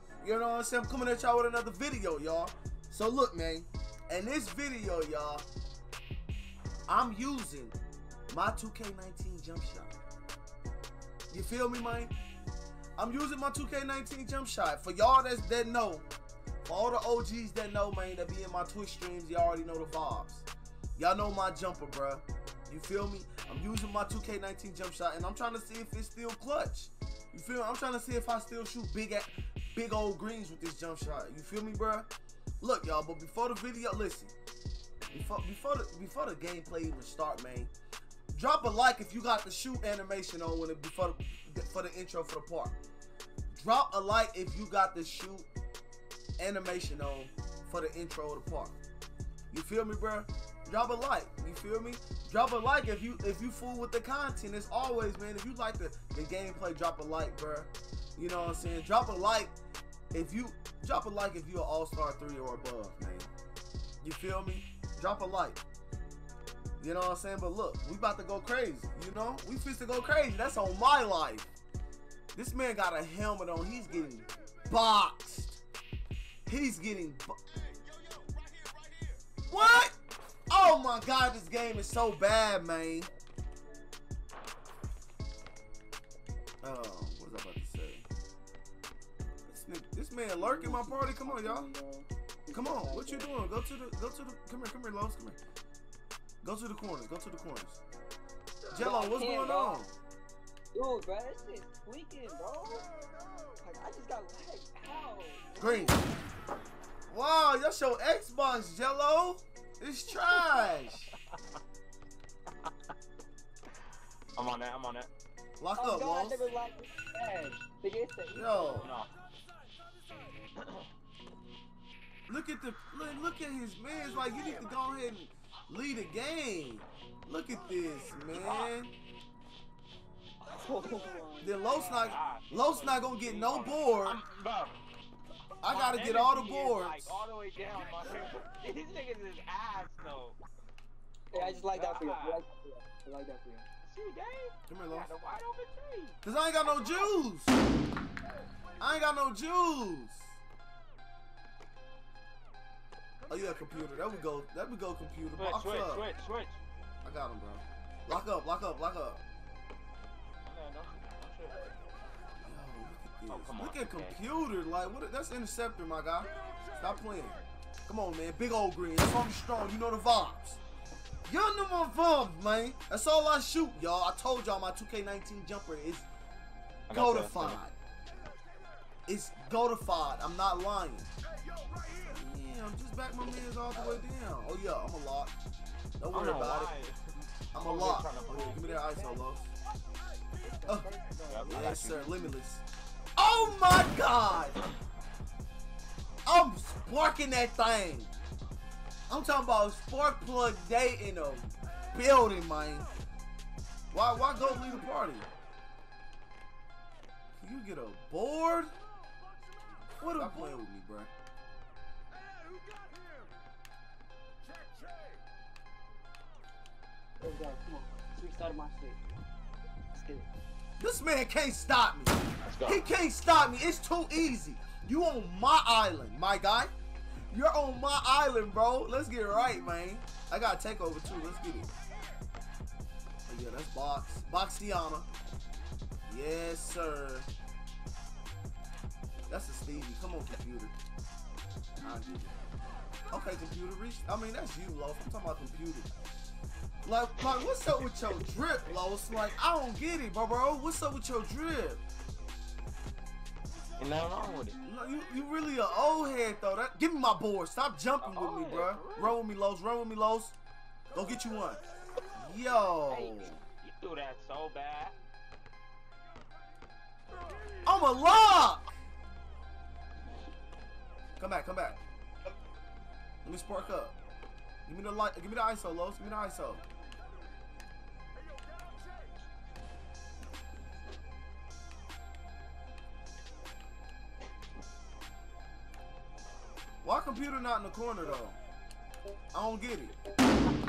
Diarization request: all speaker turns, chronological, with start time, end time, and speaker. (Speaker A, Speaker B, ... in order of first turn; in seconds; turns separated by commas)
Speaker A: 0.2-5.5, Speaker A: 6.9-7.7, Speaker A: 8.3-10.0, Speaker A: 11.3-12.1, Speaker A: 13.0-16.1, Speaker A: 16.6-32.1, Speaker A: 32.6-34.3, Speaker A: 35.1-37.7, Speaker A: 38.3-42.8, Speaker A: 43.5-45.5, Speaker A: 46.4-48.8, Speaker A: 49.5-59.5, Speaker A: 60.1-63.3, Speaker A: 64.0-65.6, Speaker A: 66.8-71.5, Speaker A: 72.3-75.6, Speaker A: 76.5-77.4, Speaker A: 79.5-80.0, Speaker A: 80.5-83.1, Speaker A: 86.6-88.1, Speaker A: 89.5-91.7, Speaker B: 90.4-93.3, Speaker A: 92.5-95.4, Speaker A: 96.4-97.8, Speaker A: 98.7-99.9, Speaker B: 98.7-99.9, Speaker B: 100.7-102.9, Speaker B: 103.6-106.2, Speaker A: 105.6-106.0, Speaker A: 107.1-111.1, Speaker C: 114.4-115.1, Speaker A: 115.6-116.5, Speaker B: 115.8-118.9, Speaker A: 118.3-118.9, Speaker C: 118.7-119.1, Speaker C: 120.6-120.8, Speaker A: 122.3-128.9, Speaker C: 128.3-128.7, Speaker B: 130.4-131.6, Speaker A: 131.4-134.2, Speaker C: 131.7-134.8, Speaker A: 135.6-137.2, Speaker C: 135.7-140.4, Speaker B: 141.3-143.7, Speaker C: 141.3-142.4, Speaker C: 143.8-147.0, Speaker A: 144.7-145.1, Speaker A: 146.2-147.5, Speaker A: 148.8-150.3, Speaker A: 153.3-156.1, Speaker C: 155.3-156.6, Speaker A: 157.0-159.2, Speaker C: 160.4-161.8, Speaker A: 162.4-170.6, Speaker C: 163.3-164.2, Speaker A: 171.2-176.1, Speaker C: 176.9-177.6, Speaker A: 176.9-177.8, Speaker A: 179.1-181.1, Speaker A: 182.1-185.3, Speaker A: 186.0-186.7, Speaker C: 186.1-187.0, Speaker C: 187.5-188.8, Speaker A: 187.5-189.5, Speaker B: 188.4-189.2, Speaker B: 190.4-192.2, Speaker C: 191.3-192.1, Speaker A: 191.5-192.6, Speaker A: 193.2-194.6, Speaker A: 196.2-198.2, Speaker A: 199.1-202.9, Speaker A: 203.9-205.3, Speaker A: 207.4-208.7, Speaker A: 210.0-211.1, Speaker B: 217.2-219.0, Speaker B: 219.9-220.3, Speaker A: 220.8-226.7, Speaker C: 222.4-222.8, Speaker A: 227.3-231.7, Speaker A: 233.3-235.1, Speaker A: 236.1-237.3, Speaker A: 239.3-240.7, Speaker A: 241.8-242.4, Speaker A: 243.1-245.9, Speaker A: 246.8-251.8, Speaker C: 253.8-254.6, Speaker A: 254.6-260.4, Speaker C: 258.0-259.2, Speaker A: 260.9-261.6, Speaker A: 262.2-263.4, Speaker C: 262.9-264.9, Speaker A: 267.6-268.7, Speaker A: 271.2-271.8, Speaker A: 273.2-274.0, Speaker A: 274.7-276.6, Speaker A: 286.8-288.4, Speaker A: 289.3-289.9